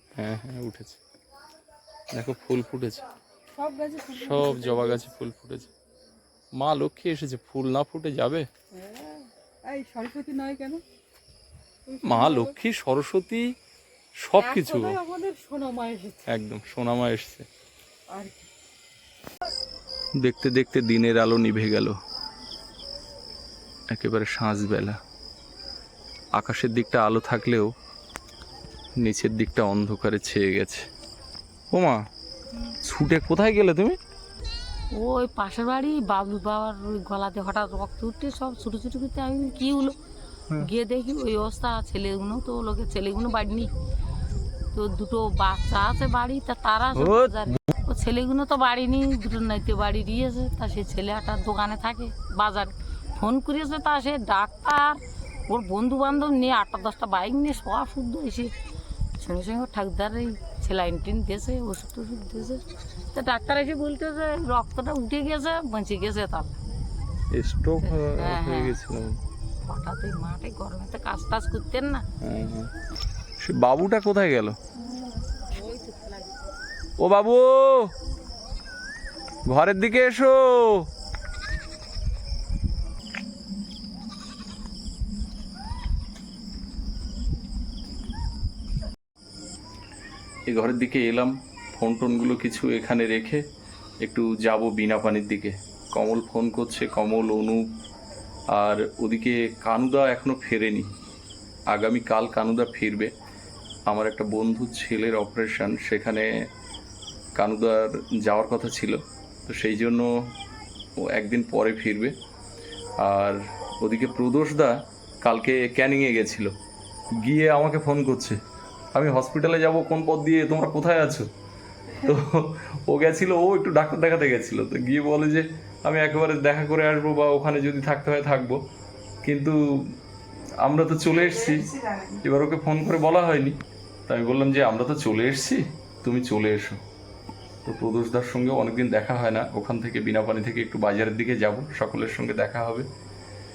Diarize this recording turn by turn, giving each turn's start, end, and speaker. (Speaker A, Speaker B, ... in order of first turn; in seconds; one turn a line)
Speaker A: 0.2-1.0
Speaker A: 2.1-3.0
Speaker B: 3.5-5.1
Speaker A: 4.1-5.7
Speaker A: 6.6-8.5
Speaker B: 8.8-10.8
Speaker B: 11.9-12.6
Speaker A: 12.1-13.5
Speaker A: 14.2-15.0
Speaker B: 14.4-16.3
Speaker A: 16.3-17.5
Speaker B: 18.1-18.5
Speaker A: 20.2-22.0
Speaker A: 23.9-25.0
Speaker A: 26.4-27.7
Speaker A: 29.0-30.9
Speaker A: 31.7-32.0
Speaker A: 32.8-34.0
Speaker C: 35.0-40.0
Speaker C: 40.6-43.7
Speaker C: 44.7-58.5
Speaker A: 47.0-47.7
Speaker C: 59.2-62.6
Speaker C: 63.1-66.6
Speaker A: 67.3-69.2
Speaker C: 67.8-68.8
Speaker C: 69.7-72.0
Speaker A: 72.2-72.7
Speaker A: 73.4-74.6
Speaker C: 74.8-76.3
Speaker A: 77.0-77.9
Speaker A: 79.5-80.9
Speaker A: 90.5-93.4
Speaker A: 94.0-97.7
Speaker A: 98.5-100.9
Speaker A: 101.7-103.1
Speaker A: 103.9-106.3
Speaker A: 107.4-110.1
Speaker A: 111.0-112.1
Speaker A: 113.0-116.5
Speaker A: 117.2-118.4
Speaker A: 118.9-121.3
Speaker A: 121.9-128.6
Speaker A: 129.2-129.9
Speaker A: 130.6-136.8
Speaker A: 137.7-142.9